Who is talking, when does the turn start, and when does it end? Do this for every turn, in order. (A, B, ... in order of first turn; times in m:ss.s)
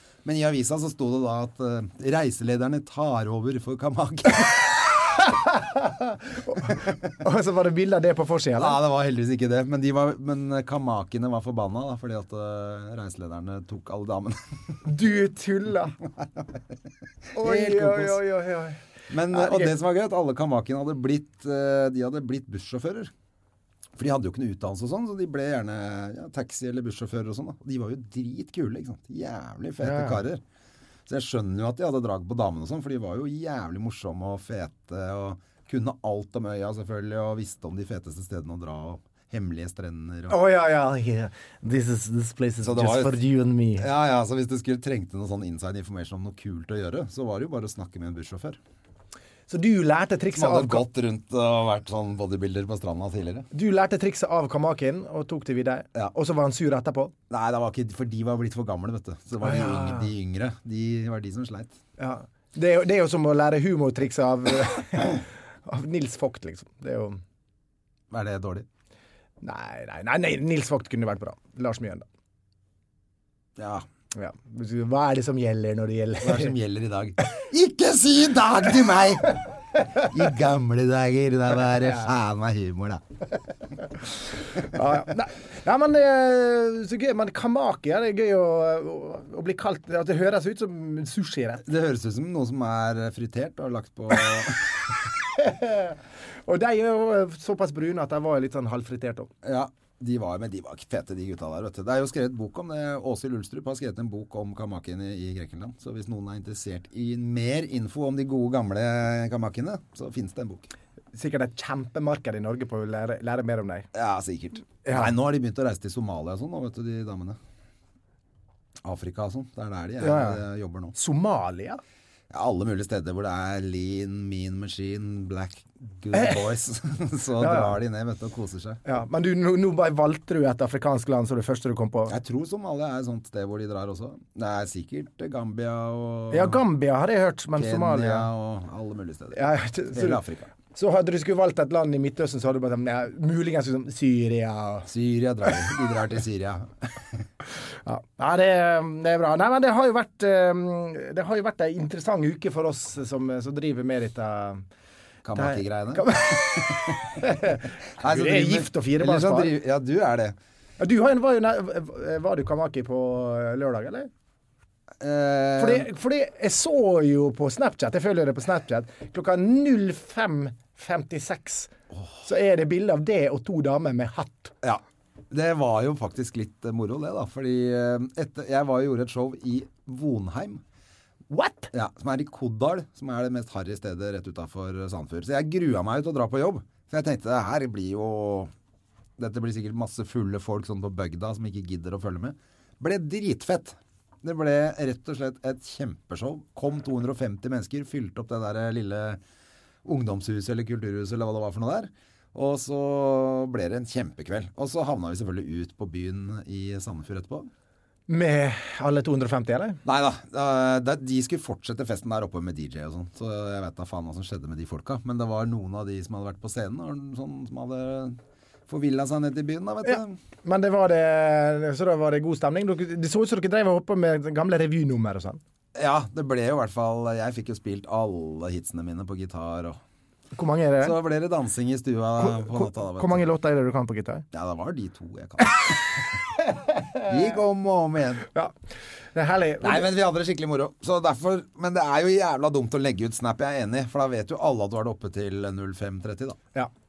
0:00.2-0:05.0 A
0:05.3-0:08.8 B
0:08.6-0:14.8 A
0:14.9-0:16.0 B
0:17.4-0:18.8 B
0:17.4-0:18.2 A
0:19.1-0:23.1 A
0:19.3-0:19.7 B
0:24.0-0:30.4 A
0:29.8-0:30.2 B
0:31.1-0:40.4 A
0:40.3-0:43.9 B
0:42.6-0:43.2 A
0:43.8-0:48.6 A
0:49.5-0:50.8 B
0:50.3-0:53.5 A
0:53.5-0:57.1 B
0:57.3-1:01.8 A
0:59.4-1:00.1 B
1:02.0-1:07.2 B
1:08.1-1:08.7 A
1:09.4-1:12.1 B
1:13.6-1:13.8 A
1:14.1-1:16.5 B
1:16.2-1:19.4 A
1:20.0-1:23.0 A
1:24.6-1:31.6 B
1:31.6-1:34.7 A
1:35.4-1:36.0 B
1:36.5-1:39.3 B
1:39.4-1:50.7 A
1:51.1-1:53.9 B
1:53.9-1:57.4 A
1:54.8-1:55.1 B
1:58.8-2:01.0 A
2:00.0-2:00.4 B
2:00.9-2:01.8 B
2:02.3-2:08.8 A
2:06.1-2:06.4 B
2:07.4-2:07.8 B
2:08.8-2:12.2 B
2:12.1-2:16.6 A
2:16.3-2:18.3 B
2:17.6-2:20.5 A
2:19.3-2:20.2 B
2:20.7-2:24.9 B
2:24.9-2:26.7 A
2:27.9-2:34.6 B
2:35.2-2:37.0 A
2:35.4-2:39.5 B
2:38.0-2:40.4 A
2:40.8-2:44.1 B
2:45.0-2:45.9 A
2:45.6-2:51.7 B
2:52.2-2:54.5 B
2:54.6-3:00.6 A
3:01.3-3:01.7 B
3:01.7-3:08.5 A
3:09.2-3:19.2 A
3:19.8-3:27.5 A
3:28.1-3:29.8 B
3:29.8-3:40.2 A
3:39.8-3:45.4 B
3:45.8-3:49.8 A
3:50.4-3:51.0 B
3:50.8-3:53.2 A
3:52.2-3:54.2 B
3:54.3-3:56.0 A
3:57.0-3:58.3 A
3:59.2-3:59.9 B
3:59.6-4:06.4 A